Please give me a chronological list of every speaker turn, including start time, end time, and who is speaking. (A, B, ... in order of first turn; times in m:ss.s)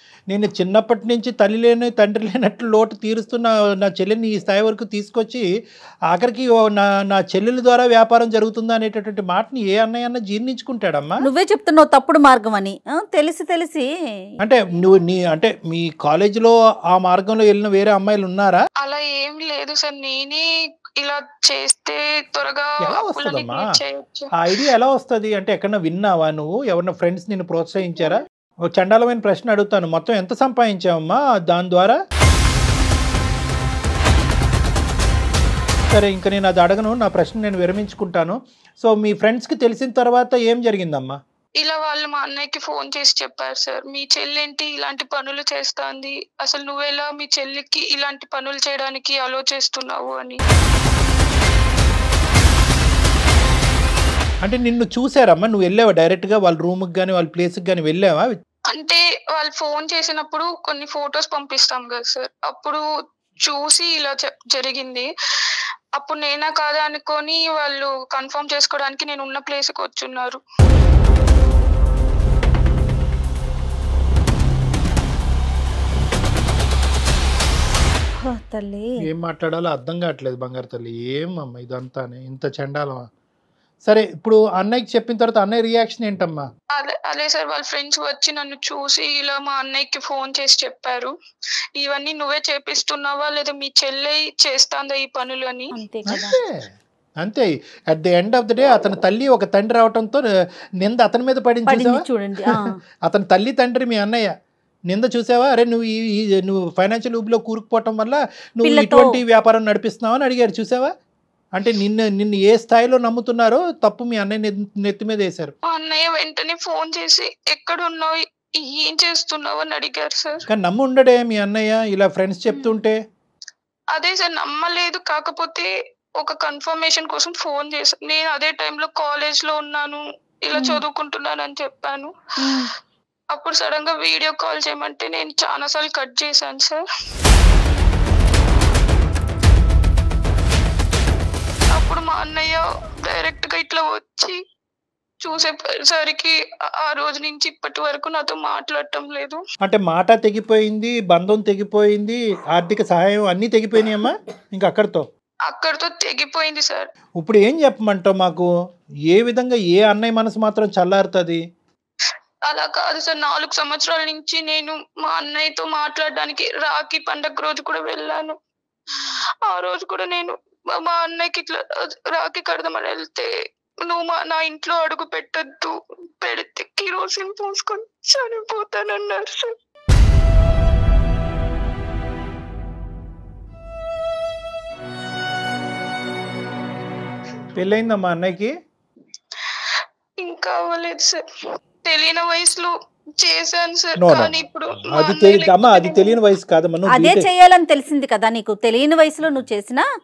0:00.3-0:05.4 A
0:06.1-0:11.2 A
0:11.2-0:13.9 B
0:14.4-0:18.6 A
0:18.8-0:20.4 C
0:21.0-0:24.3 C
0:22.8-0:23.7 A
0:24.4-0:32.0 A
0:35.9-0:41.2 A
0:41.6-0:50.4 C
0:54.4-0:58.4 A
0:58.7-1:02.8 C
1:03.4-1:05.1 C
1:06.0-1:10.4 C
1:18.2-1:19.0 B
1:19.0-1:23.1 A
1:23.9-1:26.4 A
1:26.8-1:31.1 C
1:31.8-1:35.7 C
1:35.8-1:36.4 B
1:36.1-1:40.2 A
1:40.8-1:44.3 A
1:41.7-1:42.8 B
1:44.9-1:50.9 A
1:48.6-1:49.2 B
1:51.6-1:55.5 A
1:55.7-2:00.4 C
2:00.5-2:03.0 A
2:03.9-2:12.6 C
2:10.6-2:10.8 B
2:12.4-2:12.7 B
2:13.3-2:16.8 C
2:21.7-2:24.4 C
2:25.2-2:29.4 C
2:29.6-2:35.0 A
2:35.5-2:36.9 C
2:37.2-2:38.5 A
2:39.1-2:41.4 A
2:42.5-2:48.4 C
2:48.9-2:53.3 C
2:53.8-2:59.6 C
3:07.5-3:08.5 A
3:09.4-3:11.2 C
3:11.8-3:16.2 C
3:14.0-3:14.3 A
3:14.8-3:17.3 A
3:16.9-3:19.8 B